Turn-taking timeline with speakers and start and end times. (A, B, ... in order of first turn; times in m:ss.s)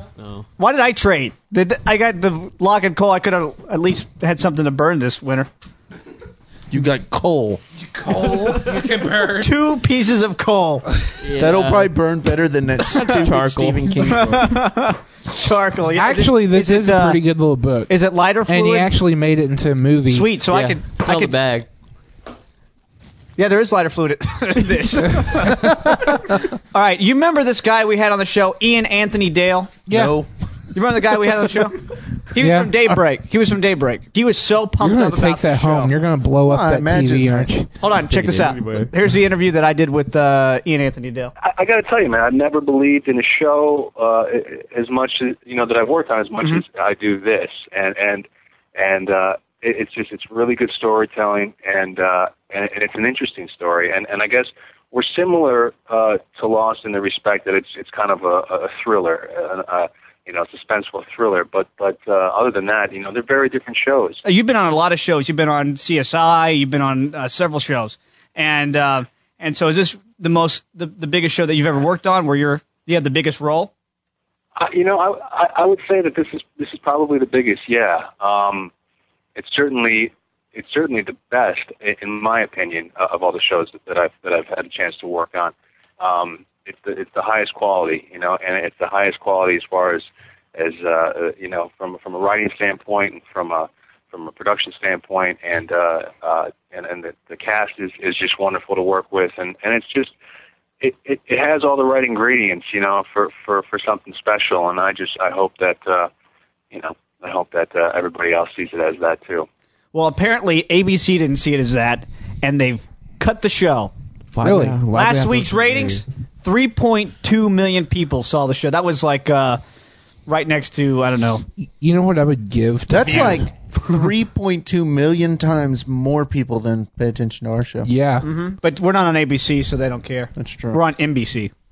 0:00.2-0:00.4 A
0:00.6-0:05.5 B
0:06.7-0:07.6 C
0:07.8-0:09.6 D
0:09.4-0:10.8 B
0:11.2-0:11.9 A
0:11.3-0:14.6 C
0:13.0-0:14.2 A
0:14.2-0:17.2 B
0:15.9-0:20.4 D
0:17.9-0:18.9 B
0:20.0-0:21.4 B
0:20.5-0:21.7 A
0:23.4-0:29.7 B
0:29.9-0:30.2 D
0:29.9-0:30.3 C
0:30.7-0:35.9 B
0:32.4-0:32.7 D
0:34.8-0:37.7 D
0:36.4-0:37.5 C
0:37.8-0:41.3 B
0:38.0-0:38.9 A
0:41.4-1:04.2 E
1:04.2-1:13.7 B
1:14.6-1:18.7 E
1:19.4-1:40.1 E
1:40.8-1:46.1 E
1:46.7-1:49.5 E
1:49.9-1:53.9 B
1:54.3-1:56.0 A
1:54.4-1:54.8 D
1:54.9-1:59.6 B
2:00.3-2:01.4 B
2:01.6-2:03.5 D
2:02.9-2:07.9 C
2:03.0-2:03.4 B
2:07.8-2:08.3 D
2:08.2-2:11.5 B
2:10.4-2:10.8 C